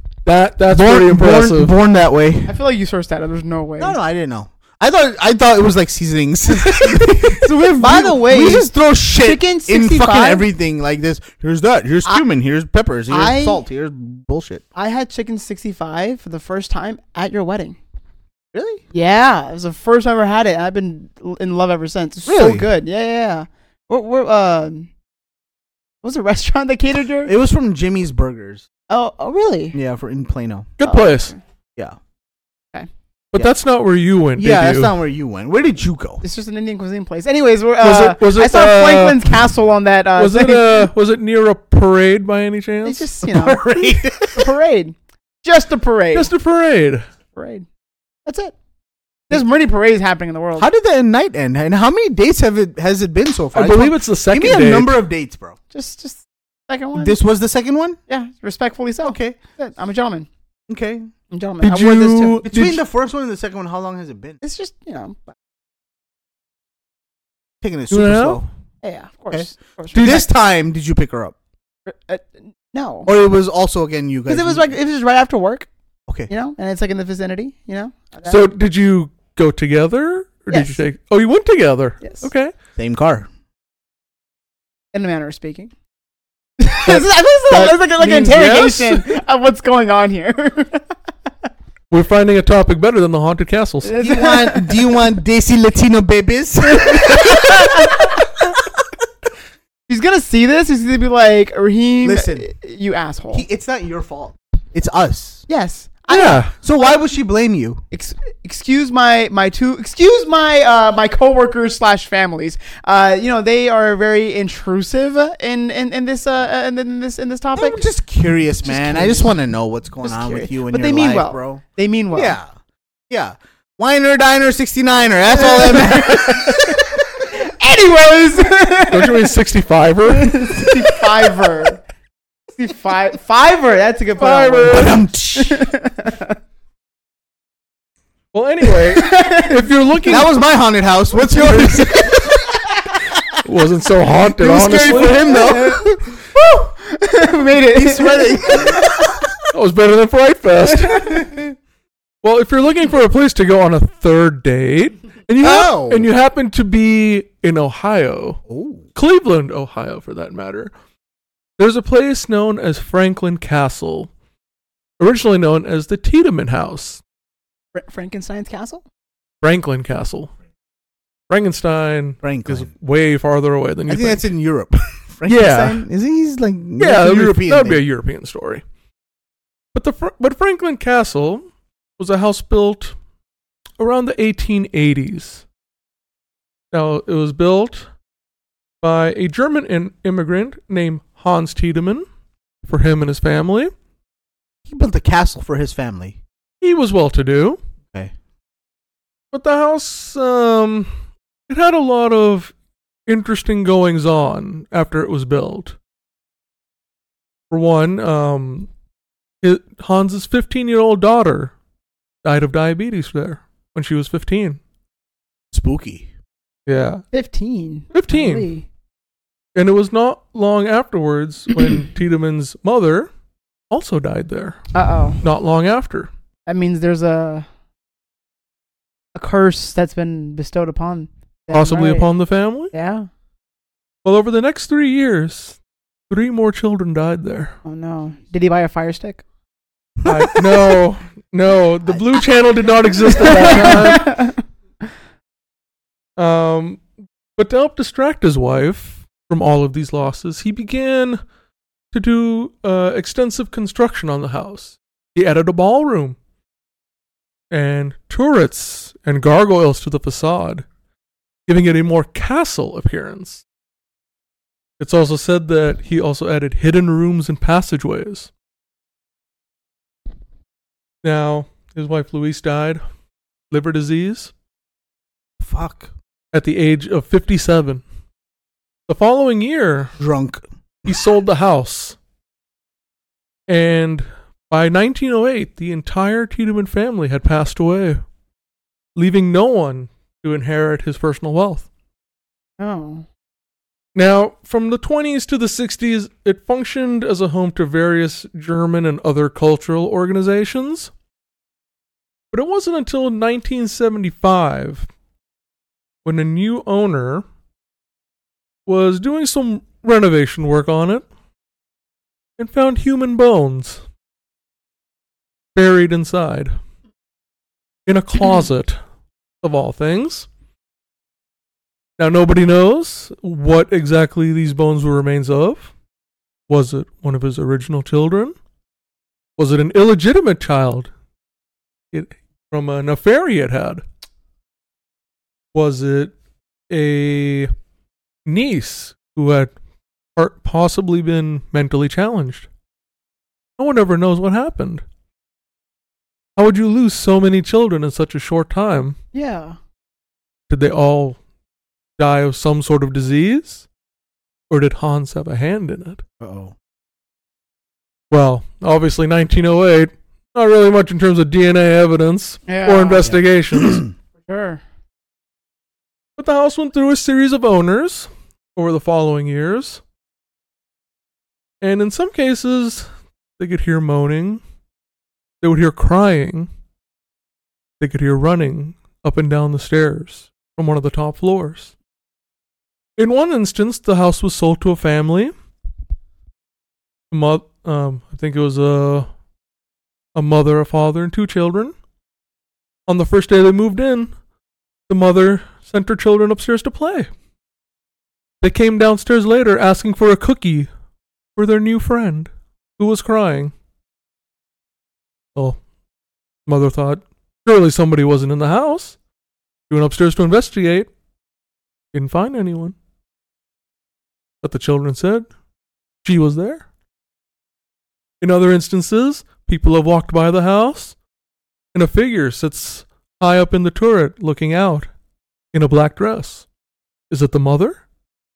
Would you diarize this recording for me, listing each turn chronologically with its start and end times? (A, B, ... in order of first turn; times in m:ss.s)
0:00.2-0:01.7 A
0:00.7-0:02.5 B
0:02.5-0:04.0 C
0:03.8-0:14.6 B
0:06.7-0:10.5 C
0:13.1-0:13.6 C
0:14.7-0:17.8 C
0:18.5-0:18.8 B
0:18.9-0:24.9 C
0:22.2-0:22.7 B
0:26.0-0:27.3 C
0:27.2-0:28.6 B
0:28.9-0:29.8 C
0:29.7-0:30.7 B
0:30.8-0:31.3 A
0:30.8-0:31.4 C
0:33.3-0:34.9 A
0:34.4-0:36.2 B
0:36.2-0:40.9 C
0:37.8-0:39.4 A
0:40.2-0:43.1 A
0:42.8-0:46.3 C
0:43.2-0:44.5 B
0:46.1-0:47.0 A
0:47.3-0:47.6 C
0:48.2-0:48.5 C
0:49.3-0:50.7 C
0:50.6-0:55.6 B
0:53.5-0:55.0 A
0:55.7-0:57.2 C
0:57.0-0:58.0 B
0:58.1-1:00.3 C
0:59.0-0:59.4 B
1:00.7-1:01.1 B
1:01.3-1:02.4 C
1:01.6-1:02.8 A
1:02.4-1:04.4 B
1:04.4-1:05.3 C
1:07.6-1:08.5 B
1:07.9-1:08.4 A
1:08.8-1:10.3 C
1:09.3-1:11.3 B
1:09.9-1:10.2 A
1:11.8-1:13.1 C
1:13.0-1:14.7 B
1:14.3-1:15.7 C
1:16.3-1:18.4 C
1:18.2-1:22.5 A
1:20.5-1:20.8 C
1:22.0-1:22.3 C
1:22.8-1:23.3 B
1:24.9-1:25.7 C
1:26.6-1:30.9 C
1:26.9-1:29.0 A
1:31.9-1:33.9 A
1:33.8-1:34.8 C
1:34.0-1:38.7 B
1:36.6-1:38.4 C
1:39.9-1:43.4 C
1:42.0-1:42.5 B
1:43.3-1:45.4 B
1:45.5-1:46.5 C
1:46.1-1:46.5 A
1:46.5-1:47.8 B
1:47.9-1:57.8 C
1:57.6-2:02.5 B
1:58.6-1:59.3 C
2:00.0-2:02.4 C
2:03.1-2:06.9 B
2:05.3-2:09.3 C
2:08.9-2:10.5 A
2:10.1-2:11.8 C
2:12.6-2:16.4 C
2:14.2-2:15.0 A
2:14.7-2:15.6 B
2:18.3-2:20.3 A
2:18.8-2:20.2 C
2:20.1-2:22.3 B
2:21.6-2:22.3 C
2:23.4-2:25.8 A
2:24.2-2:26.0 B
2:24.6-2:29.1 C
2:27.7-2:28.9 B
2:29.5-2:31.1 A
2:30.9-2:31.2 C
2:31.1-2:31.5 B
2:32.2-2:38.4 A
2:35.4-2:36.1 B
2:38.5-2:38.8 B
2:38.9-2:40.7 A
2:41.6-2:44.1 A
2:45.0-2:47.0 A
2:47.7-2:48.8 C
2:49.4-2:50.3 A
2:51.3-2:54.3 A
2:52.2-2:52.7 B
2:53.9-2:57.8 B
2:55.3-2:55.8 A
2:56.8-2:58.6 A
2:59.7-3:01.4 A
3:02.0-3:02.9 A
3:03.8-3:05.4 A
3:06.7-3:07.9 A
3:08.8-3:12.0 A
3:12.6-3:13.7 A
3:14.6-3:16.2 B
3:16.6-3:17.6 A
3:19.3-3:20.9 A
3:21.5-3:22.5 A
3:23.1-3:25.8 A
3:27.5-3:28.7 A
3:29.4-3:31.5 A
3:32.2-3:34.6 A
3:35.5-3:36.1 B
3:36.6-3:37.0 A
3:37.1-3:38.6 C
3:37.9-3:38.5 A
3:39.5-3:43.1 A
3:43.7-3:44.7 A
3:44.7-3:45.2 C
3:45.2-3:46.1 A
3:46.5-3:47.5 C
3:49.1-3:52.1 C
3:51.5-3:52.7 A
3:52.7-3:53.1 C
3:54.0-3:55.6 A
3:56.1-3:57.6 A
3:57.6-3:59.2 C
4:00.0-4:00.4 B
4:00.0-4:04.2 A
4:03.1-4:04.4 C
4:06.2-4:06.8 A
4:07.4-4:11.2 A
4:11.9-4:16.2 A
4:17.5-4:20.6 A
4:21.5-4:23.4 A
4:24.8-4:28.3 A
4:31.0-4:32.8 A
4:33.5-4:34.3 A
4:35.4-4:35.9 B
4:36.3-4:37.8 A
4:38.9-4:39.9 A
4:40.0-4:40.9 B
4:40.9-4:42.0 A
4:43.5-4:48.0 A
4:49.0-4:51.6 A
4:52.6-4:53.0 C
4:53.9-5:00.9 A
5:02.3-5:04.9 A
5:06.0-5:07.2 A
5:08.6-5:11.0 A
5:12.4-5:13.8 A
5:15.5-5:16.5 A
5:17.9-5:18.8 A
5:19.4-5:20.3 A
5:22.0-5:25.7 A
5:26.5-5:28.3 A
5:29.4-5:30.9 A
5:31.9-5:33.8 A
5:35.5-5:36.1 A
5:36.7-5:37.5 A
5:38.2-5:39.5 A
5:40.2-5:42.5 A
5:43.6-5:44.8 A
5:46.4-5:49.0 A
5:49.1-5:49.6 C
5:50.5-5:51.2 A
5:52.0-5:53.6 A
5:54.5-5:56.0 A
5:56.2-5:56.5 B
5:58.1-6:03.9 A
6:02.5-6:03.2 C
6:04.3-6:04.6 C
6:06.2-6:09.8 A
6:11.6-6:12.8 A
6:13.4-6:14.4 A
6:15.4-6:16.5 A
6:17.8-6:21.7 A
6:23.0-6:25.3 A
6:27.1-6:29.1 A
6:30.1-6:31.7 A
6:32.9-6:34.1 A
6:34.9-6:37.1 A
6:38.4-6:40.7 A
6:41.4-6:43.5 A
6:46.4-6:49.0 A
6:49.7-6:50.9 A
6:51.9-6:52.7 A
6:54.4-6:55.2 A
6:56.0-6:56.6 A
6:58.2-7:00.9 A
7:01.7-7:04.9 A
7:05.5-7:06.4 A
7:07.1-7:07.8 A